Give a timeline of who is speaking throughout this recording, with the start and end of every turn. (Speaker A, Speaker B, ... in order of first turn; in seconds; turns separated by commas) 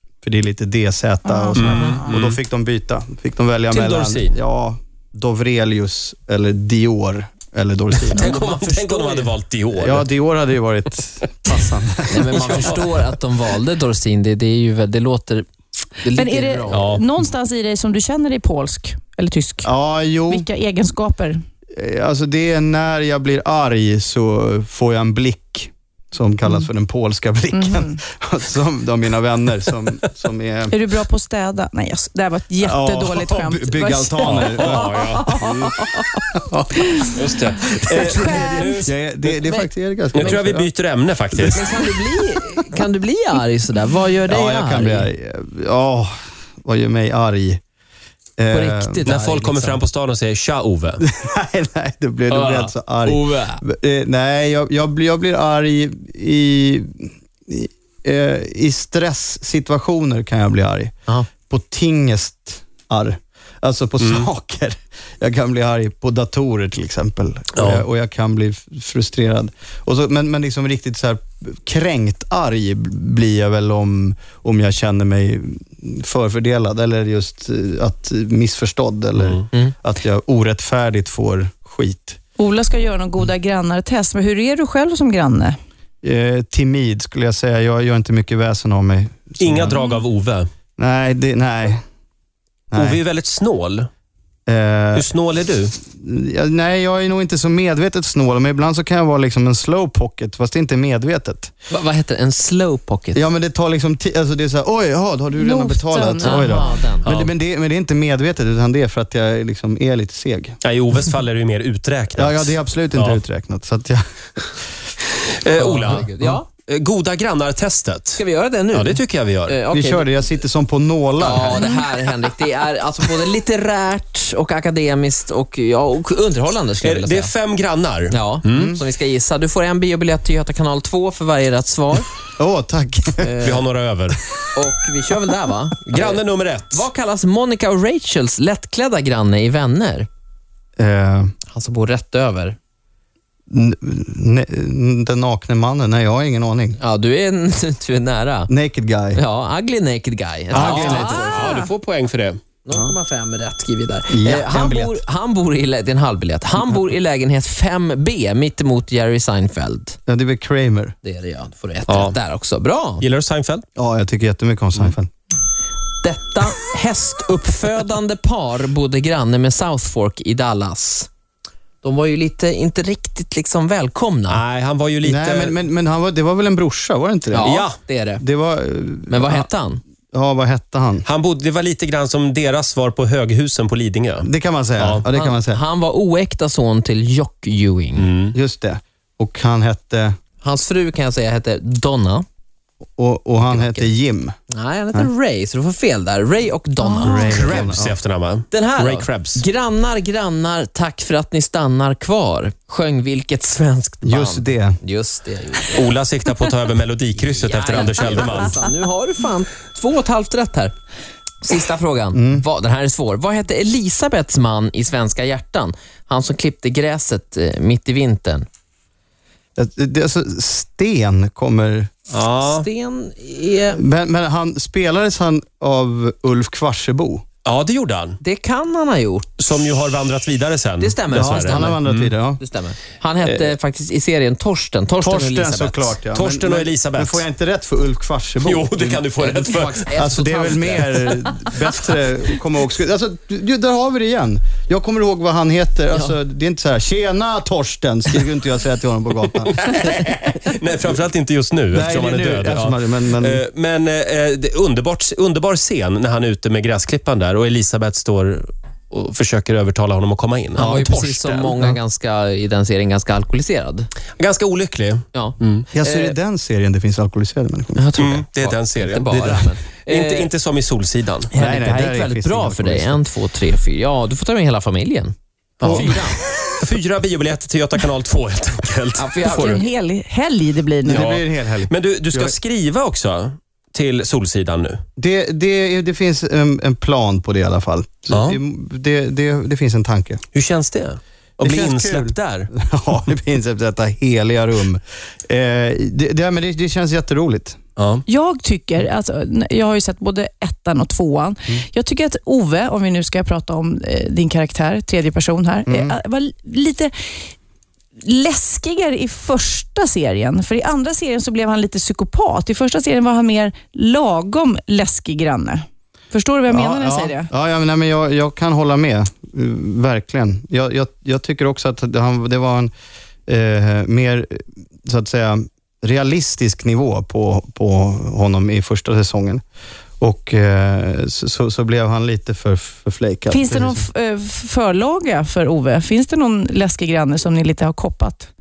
Speaker A: 0.2-8.4, Speaker B: 1.3-2.1, Speaker C: 1.6-2.4, Speaker C: 3.7-4.4, Speaker C: 8.1-10.1, Speaker D: 8.2-9.3, Speaker A: 9.7-13.0, Speaker D: 12.1-15.5, Speaker D: 16.0-16.9, Speaker B: 16.1-19.7, Speaker C: 16.7-17.1, Speaker A: 19.6-20.5, Speaker B: 20.3-21.4, Speaker A: 21.7-30.8, Speaker B: 27.5-28.0, Speaker B: 30.7-36.2, Speaker A: 32.6-35.7, Speaker C: 34.2-35.5, Speaker A: 36.3-36.8, Speaker B: 36.8-37.1, Speaker C: 37.1-38.9, Speaker A: 37.6-40.7, Speaker B: 37.6-38.9, Speaker D: 39.3-40.4, Speaker C: 40.1-41.7, Speaker A: 41.3-42.4, Speaker D: 41.5-45.1, Speaker A: 44.3-47.6, Speaker A: 48.4-49.1, Speaker D: 48.5-49.8, Speaker C: 49.1-51.0, Speaker A: 51.0-82.2, Speaker D: 52.3-53.6, Speaker C: 64.0-64.3, Speaker C: 67.5-67.8, Speaker B: 82.4-85.5, Speaker A: 86.0-89.8, Speaker C: 89.4-90.5, Speaker B: 89.7-90.0, Speaker A: 90.8-91.8, Speaker A: 92.7-93.0, Speaker C: 92.8-93.9, Speaker A: 94.5-95.1, Speaker C: 94.9-95.7, Speaker A: 95.8-101.5, Speaker D: 101.7-103.2, Speaker A: 103.1-110.6, Speaker B: 105.3-106.8, Speaker D: 106.2-107.1, Speaker C: 107.0-107.3, Speaker C: 110.6-113.2, Speaker A: 112.2-114.8, Speaker C: 115.2-116.1, Speaker D: 115.6-116.5, Speaker C: 116.7-119.6, Speaker D: 118.2-120.3, Speaker A: 119.7-121.7, Speaker D: 121.2-127.3, Speaker C: 126.8-128.8, Speaker D: 128.1-132.1, Speaker A: 128.5-128.8, Speaker A: 132.4-133.4, Speaker D: 133.2-133.7, Speaker C: 133.4-134.2, Speaker A: 134.2-134.5, Speaker D: 134.6-140.1, Speaker C: 135.8-136.9, Speaker A: 140.8-141.3, Speaker D: 141.5-142.6, Speaker A: 143.5-146.8, Speaker D: 146.8-148.5, Speaker A: 148.5-149.2, Speaker D: 149.2-151.6, Speaker A: 150.5-151.2, Speaker C: 150.5-152.4, Speaker B: 151.1-151.6, Speaker D: 152.7-160.0, Speaker A: 154.1-155.0, Speaker A: 160.1-160.9, Speaker D: 161.0-163.0, Speaker C: 161.9-162.2, Speaker C: 163.0-163.6, Speaker A: 163.8-165.1, Speaker D: 166.0-171.1, Speaker D: 171.8-174.4, Speaker C: 174.3-175.6, Speaker A: 175.0-177.6, Speaker D: 177.3-178.2, Speaker C: 177.4-177.8, Speaker A: 178.2-179.5, Speaker D: 179.1-179.8, Speaker A: 180.1-181.1, Speaker C: 181.1-185.1, Speaker A: 184.2-185.6, Speaker D: 185.1-188.1, Speaker C: 187.9-188.3, Speaker A: 188.3-190.2, Speaker D: 190.4-192.2, Speaker A: 193.0-194.3, Speaker D: 193.5-193.9, Speaker D: 194.5-197.7, Speaker B: 196.8-197.1, Speaker A: 197.0-198.0, Speaker C: 197.0-199.4, Speaker D: 198.5-205.9, Speaker A: 204.0-204.8, Speaker C: 205.7-208.6, Speaker D: 207.2-210.7, Speaker D: 211.4-218.5, Speaker A: 212.1-212.4, Speaker A: 219.6-221.9, Speaker C: 222.1-222.7, Speaker D: 222.4-223.8, Speaker A: 223.7-227.2, Speaker C: 227.4-228.2, Speaker D: 228.2-229.4, Speaker C: 229.4-232.1, Speaker D: 230.8-231.8, Speaker A: 231.1-232.4, Speaker D: 232.4-236.0, Speaker A: 235.0-239.1, Speaker C: 236.1-237.2, Speaker C: 238.4-239.8, Speaker D: 239.2-241.2, Speaker A: 239.9-249.5, Speaker C: 249.5-261.5, Speaker A: 251.7-253.4, Speaker D: 260.6-263.9, Speaker A: 260.6-260.9, Speaker A: 261.5-261.8, Speaker C: 264.2-265.7, Speaker D: 265.1-266.1, Speaker A: 265.7-267.9, Speaker D: 267.8-270.3, Speaker C: 268.0-271.3, Speaker D: 271.3-276.2, Speaker A: 271.3-273.1, Speaker C: 275.6-279.6, Speaker A: 275.6-276.6, Speaker D: 279.0-279.7, Speaker B: 279.2-281.1, Speaker A: 280.8-282.4, Speaker C: 280.9-284.8, Speaker A: 285.0-290.2, Speaker C: 288.1-288.4, Speaker C: 290.4-292.5, Speaker A: 291.4-297.6, Speaker C: 297.8-298.1, Speaker B: 298.1-306.9, Speaker A: 305.7-306.0, Speaker B: 308.0-317.3, Speaker A: 316.5-322.7, Speaker A: 323.3-329.4, Speaker A: 330.0-333.9, Speaker B: 333.3-338.3